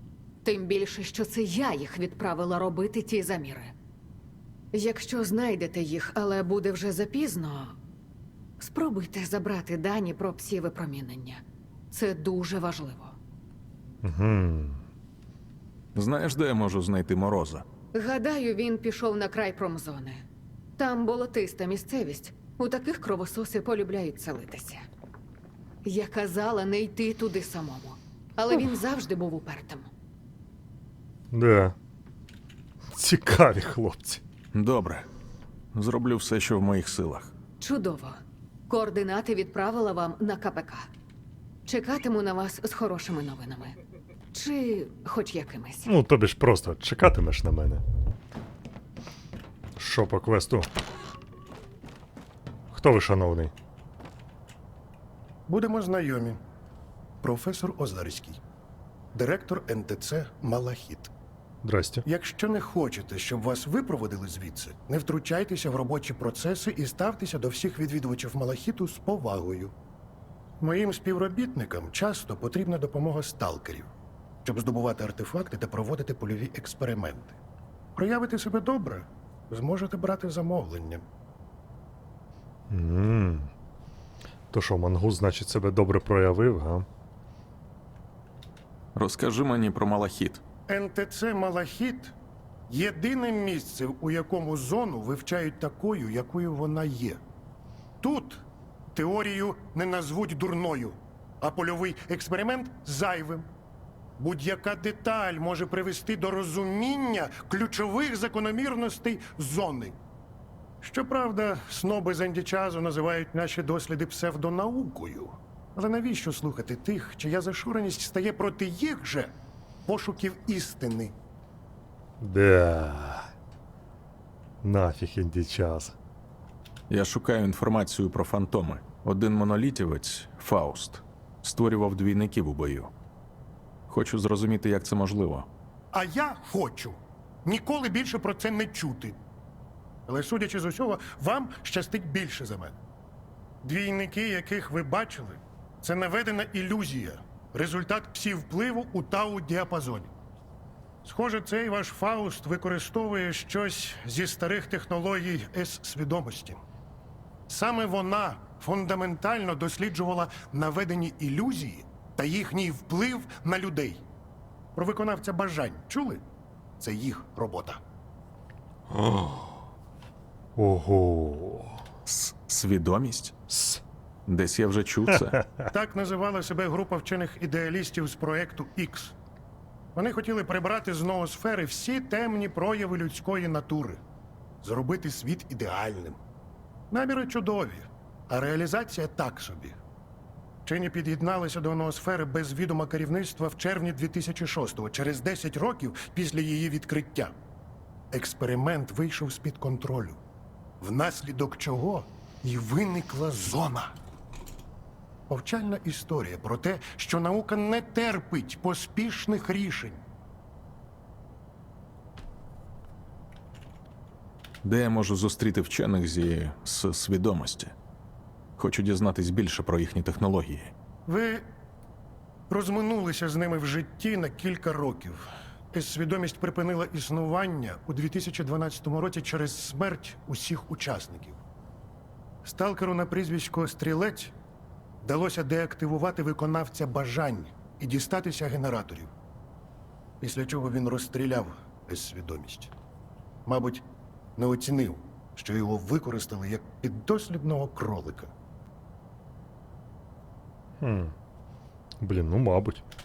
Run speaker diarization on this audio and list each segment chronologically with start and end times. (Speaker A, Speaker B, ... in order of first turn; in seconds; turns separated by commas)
Speaker A: 0.4-3.7, Speaker A: 4.7-7.8, Speaker A: 8.6-13.2, Speaker B: 14.0-14.8, Speaker C: 15.9-17.6, Speaker A: 17.9-20.2, Speaker A: 20.8-24.8, Speaker A: 25.8-29.9, Speaker B: 31.3-31.7, Speaker B: 32.9-34.2, Speaker C: 34.5-35.0, Speaker C: 35.7-37.3, Speaker A: 37.6-40.9, Speaker A: 41.6-43.8, Speaker A: 44.3-45.9, Speaker B: 45.9-47.8, Speaker B: 49.8-50.7, Speaker B: 52.7-53.5, Speaker D: 55.5-56.4, Speaker D: 57.2-58.4, Speaker D: 59.1-61.1, Speaker B: 61.6-62.0, Speaker D: 62.0-69.7, Speaker D: 70.6-73.9, Speaker D: 74.4-77.4, Speaker D: 77.9-81.0, Speaker B: 82.7-83.5, Speaker B: 84.5-86.9, Speaker C: 88.9-90.4, Speaker D: 90.7-92.1, Speaker D: 92.7-97.2, Speaker D: 98.0-103.5, Speaker D: 104.2-110.0, Speaker D: 110.8-119.3, Speaker D: 119.8-121.1, Speaker B: 122.2-123.3, Speaker B: 124.6-126.0, Speaker C: 126.9-132.9, Speaker C: 133.9-135.5, Speaker D: 135.9-139.2, Speaker D: 140.1-142.8, Speaker D: 143.6-150.1, Speaker D: 151.0-156.6, Speaker D: 157.5-164.0, Speaker D: 164.7-166.2, Speaker D: 166.8-167.8, Speaker B: 168.9-169.5, Speaker B: 170.6-171.8, Speaker C: 172.1-173.3, Speaker B: 173.5-173.8, Speaker C: 174.3-175.4, Speaker D: 175.7-179.1, Speaker D: 179.9-184.0, Speaker D: 184.6-186.2, Speaker D: 186.9-189.8, Speaker D: 190.6-197.3, Speaker D: 198.1-200.2, Speaker D: 200.8-203.9, Speaker D: 205.3-210.0, Speaker C: 214.6-217.7, Speaker C: 218.6-220.7, Speaker D: 221.1-221.5, Speaker D: 222.5-231.4, Speaker D: 232.4-234.3, Speaker D: 235.0-239.1, Speaker D: 240.2-242.7, Speaker D: 243.4-243.8, Speaker D: 244.3-248.3, Speaker B: 250.8-251.1, Speaker B: 252.0-252.8